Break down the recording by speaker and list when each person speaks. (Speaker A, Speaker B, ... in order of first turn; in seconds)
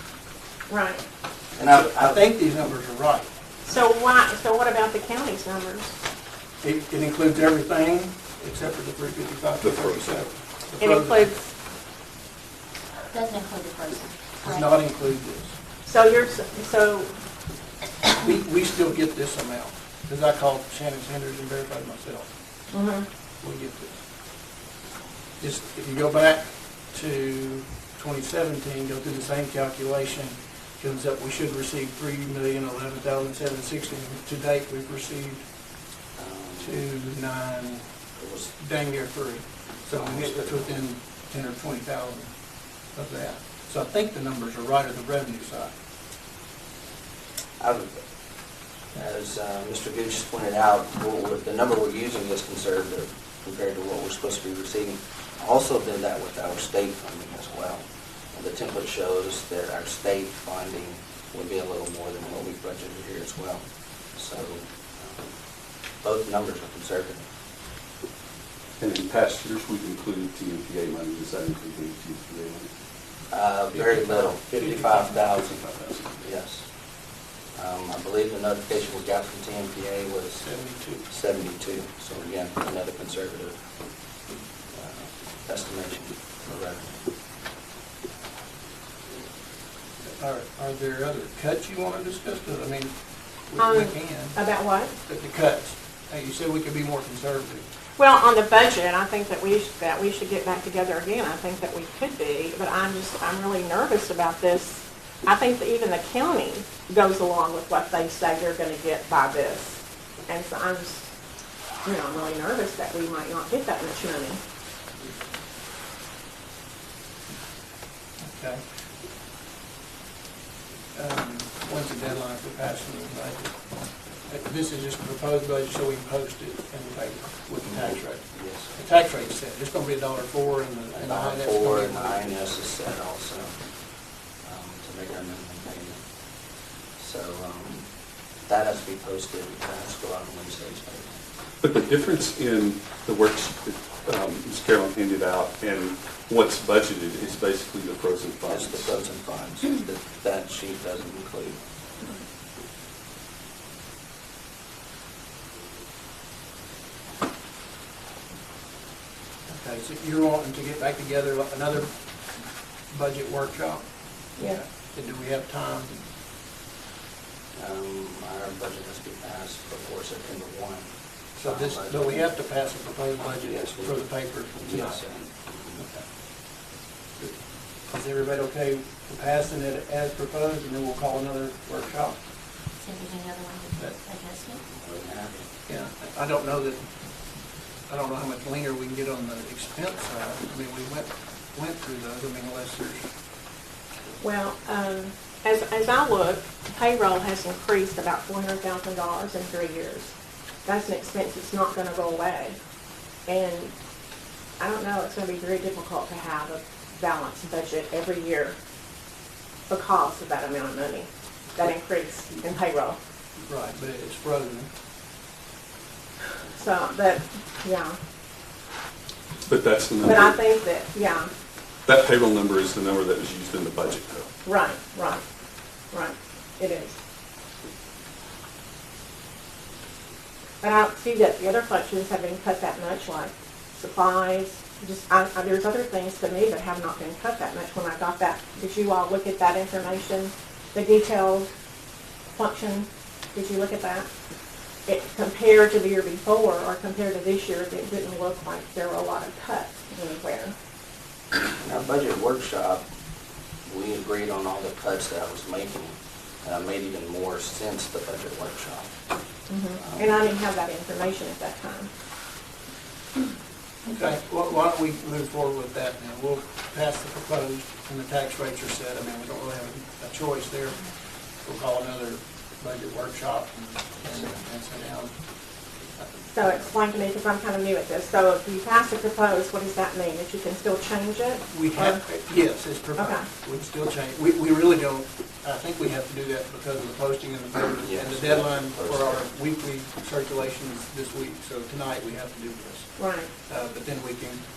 Speaker A: 0.7-1.0, 3.6-6.0, 10.8-11.5, 15.9-17.1, 22.7-23.1, 93.6-94.9, 98.0-111.1, 111.8-114.4, 194.2-200.1, 200.7-202.6, 203.3-203.7, 204.6-208.6, 209.7-213.0, 216.6-218.0, 220.0-221.3, 224.4-225.2, 225.9-227.0, 230.6-241.5, 242.3-244.1, 244.9-250.5, 259.5-261.9, 276.3-282.0, 283.0-283.3, 293.0-293.3
Speaker B: 1.6-2.3, 36.2-36.8, 38.2-38.5, 39.9-40.7, 47.6-47.9, 48.9-63.6, 64.2-65.3, 66.0-67.3, 73.3-75.6, 76.2-76.7, 77.5-80.5, 81.1-83.6, 84.8-86.9, 127.7-128.7, 130.9-133.6, 134.4-136.0, 137.0-137.9, 138.5-141.2, 148.5-151.6, 167.6-172.2, 173.4-174.0, 174.6-175.8, 184.7-185.5, 251.4-252.8, 253.7-258.9, 259.8-260.2, 287.8-289.2
Speaker C: 1.7-3.3, 6.6-11.3, 14.4-15.6, 18.1-22.3, 23.4-24.0, 25.4-35.4, 36.6-37.8, 38.6-42.3, 43.0-45.7, 73.7-75.2, 80.4-81.1, 90.2-92.9, 93.5-94.4, 95.1-97.7, 118.2-118.6, 121.0-123.5, 124.3-132.3, 159.5-161.9, 162.9-163.8, 164.4-166.0, 171.4-175.0, 177.9-182.2, 185.7-186.8, 187.9-193.1, 213.5-214.7, 263.9-270.8, 271.4-275.1, 276.0-276.7, 281.5-292.9, 293.5-294.4
Speaker D: 9.6-10.3, 68.8-72.7, 75.6-76.0, 141.6-149.0, 219.5-220.4, 221.9-224.3
Speaker E: 13.1-14.7, 182.8-184.6